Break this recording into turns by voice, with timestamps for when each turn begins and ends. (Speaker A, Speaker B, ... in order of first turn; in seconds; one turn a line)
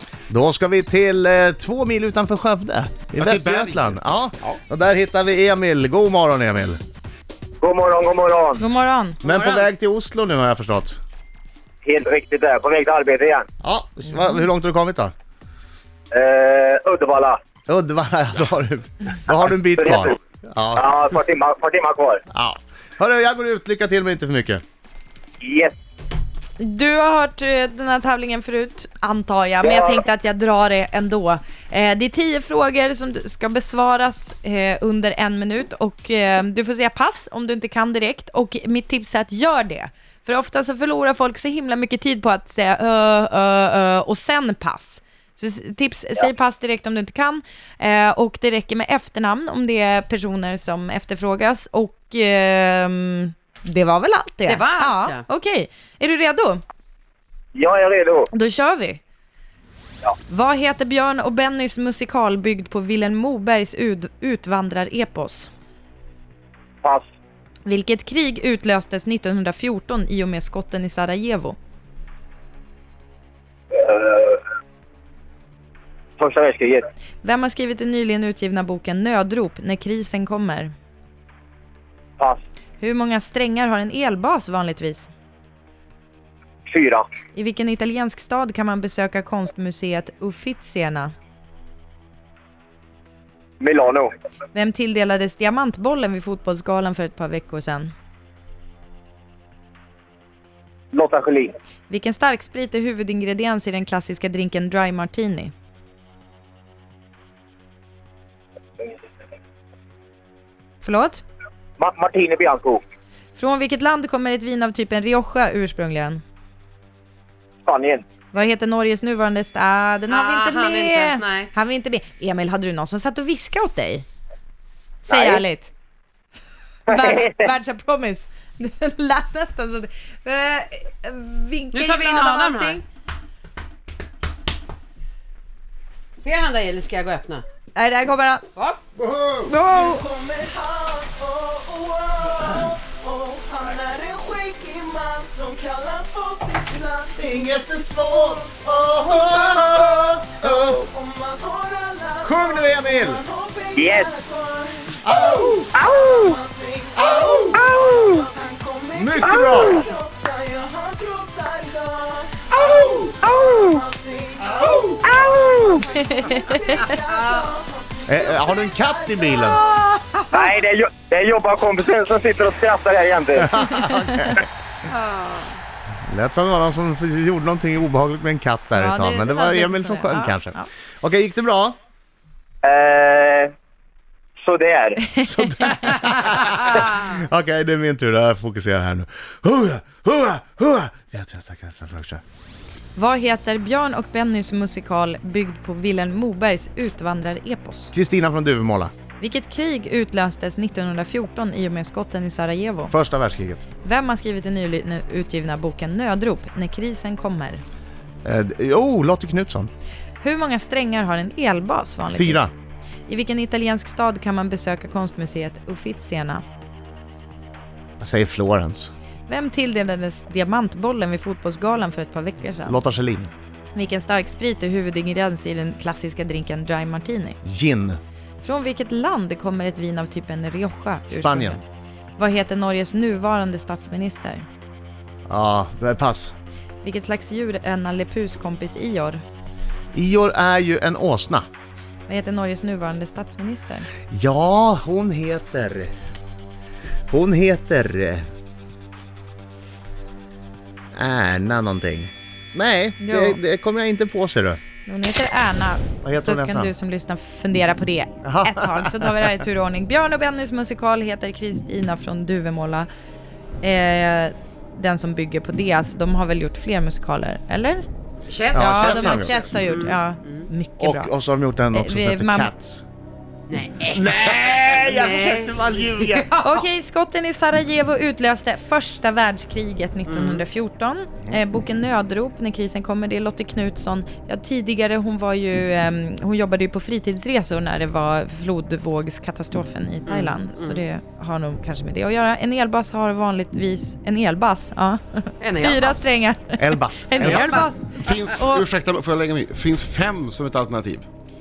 Speaker A: 0.3-6.8
Speaker B: 3.2-4.6
Speaker C: 7.6-8.6
Speaker D: 8.6-9.2
Speaker A: 9.2-11.0
Speaker E: 9.3-9.6
Speaker C: 11.8-13.5
Speaker A: 13.6-15.1
Speaker C: 16.1-17.4
Speaker A: 17.7-20.9
Speaker C: 19.8-20.1
Speaker C: 20.8-22.2
Speaker A: 22.3-24.6
Speaker C: 25.4-25.7
Speaker D: 26.6-56.6
Speaker E: 54.5-55.2
Speaker C: 57.5-58.3
Speaker D: 58.3-59.0
Speaker D: 60.3-65.5
Speaker D: 67.7-71.6
Speaker C: 73.7-74.4
Speaker C: 76.2-76.8
Speaker D: 77.2-80.7
Speaker D: 82.8-85.1
Speaker C: 86.7-87.1
Speaker D: 87.3-91.1
Speaker C: 93.6-94.1
Speaker D: 94.5-97.9
Speaker C: 100.9-101.5
Speaker D: 101.9-105.5
Speaker D: 110.8-111.2
Speaker C: 111.8-112.8
Speaker D: 113.3-116.2
Speaker C: 117.6-118.0
Speaker D: 118.3-124.0
Speaker E: 120.1-121.5
Speaker D: 125.1-125.7
Speaker C: 125.1-125.4
Speaker C: 126.9-127.3
Speaker D: 126.9-132.8
Speaker E: 131.7-132.8
Speaker E: 136.2-137.4
Speaker D: 137.7-138.4
Speaker A: 139.0-139.5
Speaker D: 139.4-140.1
Speaker F: 139.7-147.3
Speaker A: 147.1-150.9
Speaker F: 147.9-148.4
Speaker F: 149.1-169.5
Speaker A: 152.2-153.2
Speaker C: 153.8-154.1
Speaker A: 155.0-155.7
Speaker C: 155.8-156.4
Speaker A: 156.9-157.6
Speaker C: 157.5-158.2
Speaker A: 158.9-159.9
Speaker C: 159.3-159.8
Speaker A: 162.6-162.9
Speaker D: 163.2-163.8
Speaker A: 164.5-164.9
Speaker D: 165.1-166.9
Speaker E: 166.8-167.6
Speaker A: 168.1-169.6
Speaker D: 169.5-170.5
Speaker C: 170.3-173.6
Speaker A: 173.4-174.4
Speaker D: 173.8-174.3
Speaker E: 174.9-175.6
Speaker A: 176.1-181.8
Speaker D: 178.7-180.7
Speaker C: 182.6-183.5
Speaker C: 184.4-185.0
Speaker D: 185.2-185.7
Speaker A: 185.3-192.2
Speaker D: 192.9-197.9
Speaker A: 197.9-198.9
Speaker D: 199.2-202.9
Speaker A: 202.9-203.6
Speaker D: 203.8-207.6
Speaker A: 208.2-209.7
Speaker D: 210.2-212.5
Speaker A: 212.1-212.5
Speaker D: 213.1-216.4
Speaker A: 218.0-218.9
Speaker D: 219.3-222.8
Speaker A: 222.7-223.3
Speaker D: 223.7-227.4
Speaker A: 227.4-228.0
Speaker D: 228.4-231.6
Speaker A: 231.1-231.6
Speaker D: 232.2-234.4
Speaker A: 235.3-236.3
Speaker D: 236.8-239.2
Speaker A: 239.9-241.4
Speaker D: 242.1-243.9
Speaker A: 244.1-245.9
Speaker A: 247.1-248.3
Speaker A: 250.9-254.6
Speaker D: 253.0-253.4
Speaker D: 254.8-262.9
Speaker A: 256.0-256.7
Speaker A: 258.2-259.4
Speaker D: 263.6-267.8
Speaker E: 268.3-270.5
Speaker A: 268.5-269.4
Speaker D: 268.5-271.1
Speaker A: 270.8-272.8
Speaker D: 271.7-272.5
Speaker E: 273.5-276.6
Speaker A: 273.9-276.3
Speaker D: 276.4-298.6
Speaker E: 280.1-280.4
Speaker E: 290.1-290.8
Speaker E: 295.4-296.0
Speaker A: 296.6-297.7
Speaker E: 297.2-297.7
Speaker B: 297.9-301.1